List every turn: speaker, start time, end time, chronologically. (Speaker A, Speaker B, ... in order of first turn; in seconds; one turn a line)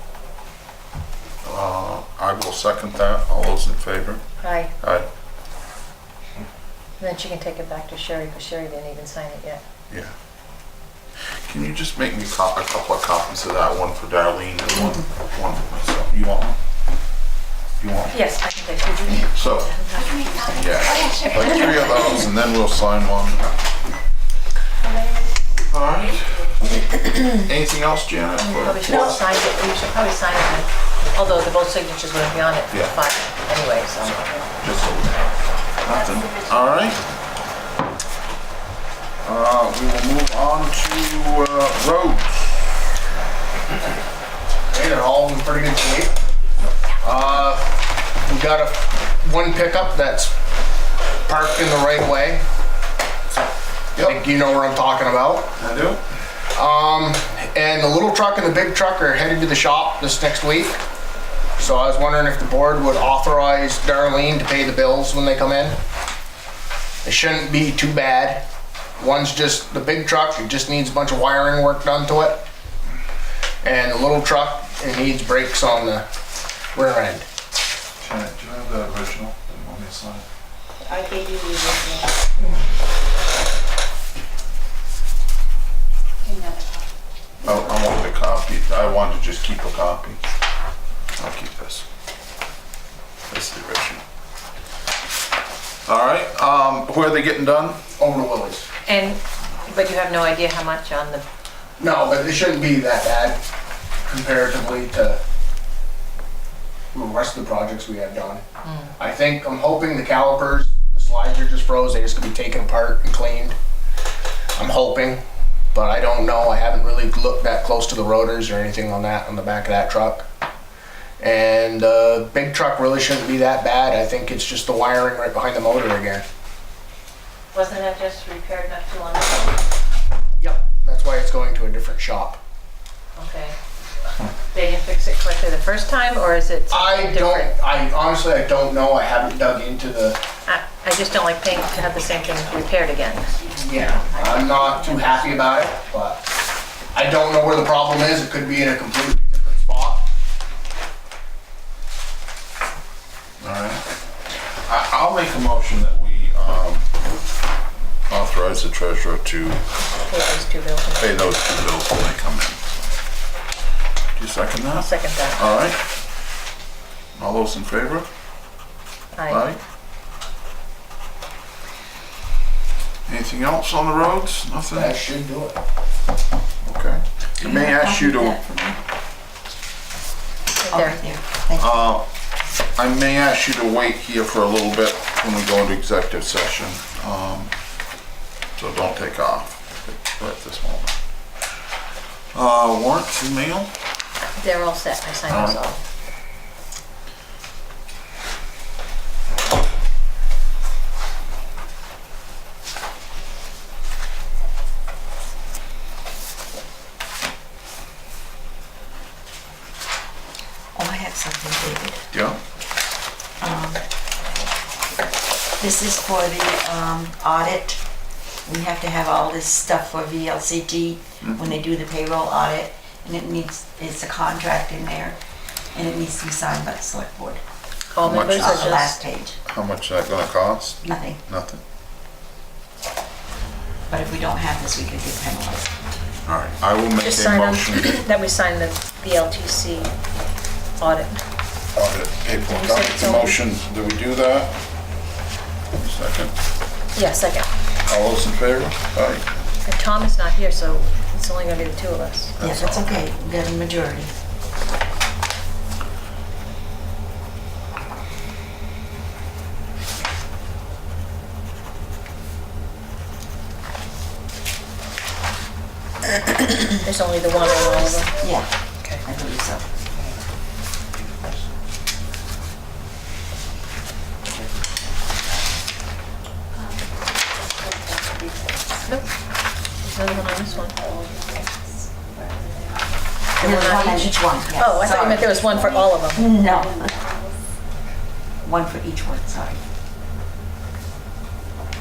Speaker A: 1.4-4.2
Speaker B: 4.4-4.7
Speaker A: 4.8-5.1
Speaker B: 7.0-9.6
Speaker A: 11.4-16.6
Speaker A: 17.8-18.2
Speaker B: 18.1-22.1
Speaker A: 19.3-19.7
Speaker C: 20.0-21.9
Speaker D: 20.2-20.5
Speaker A: 20.5-23.5
Speaker D: 24.8-26.6
Speaker A: 25.7-26.4
Speaker A: 27.3-29.2
Speaker B: 28.4-34.5
Speaker C: 28.9-29.2
Speaker A: 34.6-35.2
Speaker A: 35.8-37.0
Speaker D: 35.9-36.9
Speaker A: 39.2-42.8
Speaker E: 44.7-46.2
Speaker E: 47.0-50.3
Speaker E: 51.3-52.5
Speaker A: 54.0-54.2
Speaker E: 54.0-55.5
Speaker A: 55.6-56.0
Speaker E: 56.5-60.8
Speaker E: 61.6-65.8
Speaker E: 67.0-68.5
Speaker E: 69.0-72.5
Speaker E: 73.6-76.1
Speaker E: 76.8-77.3
Speaker A: 78.0-80.3
Speaker D: 80.8-82.2
Speaker D: 86.2-86.9
Speaker A: 87.4-90.2
Speaker A: 91.2-91.8
Speaker A: 93.3-94.0
Speaker A: 95.9-97.8
Speaker E: 98.0-98.7
Speaker B: 98.8-101.2
Speaker E: 101.8-103.4
Speaker E: 104.0-105.2
Speaker E: 106.9-108.4
Speaker B: 108.6-108.9
Speaker E: 109.0-113.6
Speaker E: 114.5-115.2
Speaker E: 115.7-120.3
Speaker E: 121.2-126.3
Speaker B: 127.5-129.6
Speaker E: 130.4-132.4
Speaker B: 133.2-133.6
Speaker B: 134.5-137.5
Speaker E: 136.7-140.2
Speaker B: 140.5-143.3
Speaker E: 143.5-146.3
Speaker B: 144.3-145.3
Speaker E: 146.9-150.1
Speaker A: 153.4-153.8
Speaker A: 154.7-156.9
Speaker A: 158.1-159.6
Speaker B: 160.1-161.3
Speaker A: 161.0-162.6
Speaker A: 164.2-165.8
Speaker B: 164.7-165.4
Speaker A: 167.2-168.1
Speaker B: 169.2-169.4
Speaker A: 169.3-169.6
Speaker A: 173.1-175.0
Speaker E: 174.7-175.6
Speaker A: 176.6-178.4
Speaker C: 177.4-178.8
Speaker B: 180.6-181.0
Speaker C: 180.6-181.8
Speaker A: 181.6-182.1
Speaker A: 182.8-187.5
Speaker A: 188.6-190.9
Speaker A: 192.3-193.7
Speaker B: 194.4-195.8
Speaker A: 195.3-195.6
Speaker C: 210.8-212.1
Speaker A: 212.1-212.4
Speaker C: 213.4-213.8
Speaker C: 215.6-217.8
Speaker C: 218.5-225.2
Speaker A: 221.2-221.5
Speaker C: 225.7-227.4
Speaker B: 227.9-229.0
Speaker A: 227.9-228.8
Speaker C: 228.1-229.4
Speaker A: 229.5-231.6
Speaker C: 230.8-231.2
Speaker C: 233.9-235.7
Speaker A: 236.2-238.0
Speaker B: 237.0-239.9
Speaker B: 240.8-241.2
Speaker A: 241.8-244.6
Speaker B: 242.4-243.4
Speaker A: 245.8-246.3
Speaker B: 246.9-247.5
Speaker A: 247.9-249.3
Speaker B: 249.7-252.3
Speaker A: 252.4-253.1
Speaker C: 252.4-254.1
Speaker C: 266.3-266.7
Speaker B: 266.8-268.1
Speaker C: 268.2-268.5
Speaker C: 269.0-269.7
Speaker D: 276.6-278.7
Speaker B: 279.8-280.8
Speaker D: 280.5-283.0
Speaker B: 283.4-286.3
Speaker C: 283.4-286.9
Speaker D: 286.2-287.4
Speaker C: 288.4-289.6